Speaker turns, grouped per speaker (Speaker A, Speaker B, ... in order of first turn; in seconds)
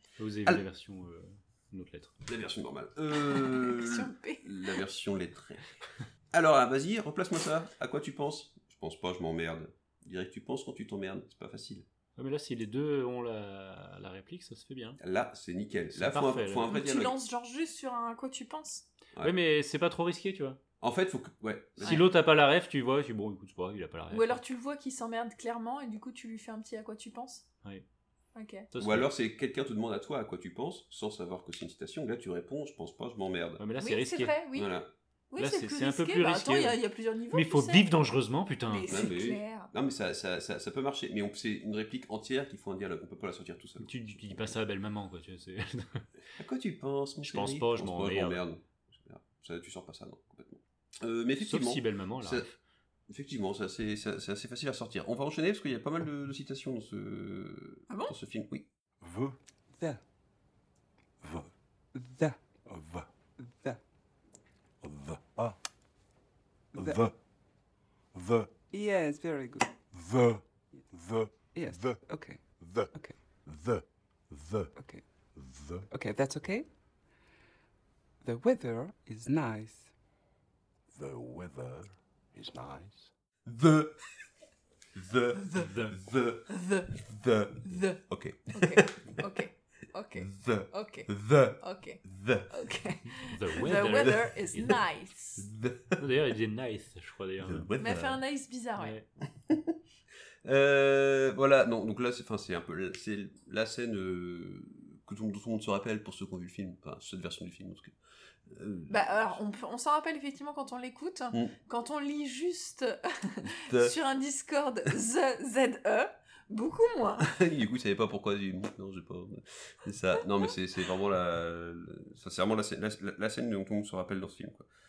Speaker A: 0.2-2.1, 12.2-15.0, 15.9-16.7, 19.2-20.6, 21.8-24.4, 28.7-29.1, 33.6-34.4, 35.4-38.9, 43.8-46.1, 47.2-48.4, 51.4-52.5, 85.6-86.0, 93.3-94.7, 96.0-97.7, 98.8-99.0
Speaker B: 2.3-5.7, 6.3-11.8, 15.0-17.2, 20.8-22.1, 28.8-33.6, 34.5-34.9, 38.9-44.4, 46.4-52.5, 53.1-58.7, 83.5-84.0, 85.0-89.2, 90.2-92.5, 93.9-94.2, 95.4-96.0, 97.4-98.2, 99.5-99.8, 100.5-107.9, 108.5-109.4, 113.6-113.9, 117.2-124.7
Speaker C: 3.2-4.5, 16.7-18.9, 24.1-27.4, 28.4-28.7, 33.8-34.7, 35.3-38.0, 38.7-39.7, 57.9-58.1, 85.4-85.7, 86.5-86.9, 87.7-95.5, 97.8-99.0, 108.9-117.3
Speaker D: 59.0-59.4, 61.2-61.5, 62.7-63.1, 64.8-65.6, 66.8-67.2, 68.1-68.5, 69.9-72.0, 72.5-74.7, 75.3-75.9, 80.9-83.1
Speaker E: 61.9-62.4, 63.4-63.8, 66.8-67.0, 68.7-69.7, 71.5-73.2, 74.8-75.3, 75.9-76.7, 78.2-79.9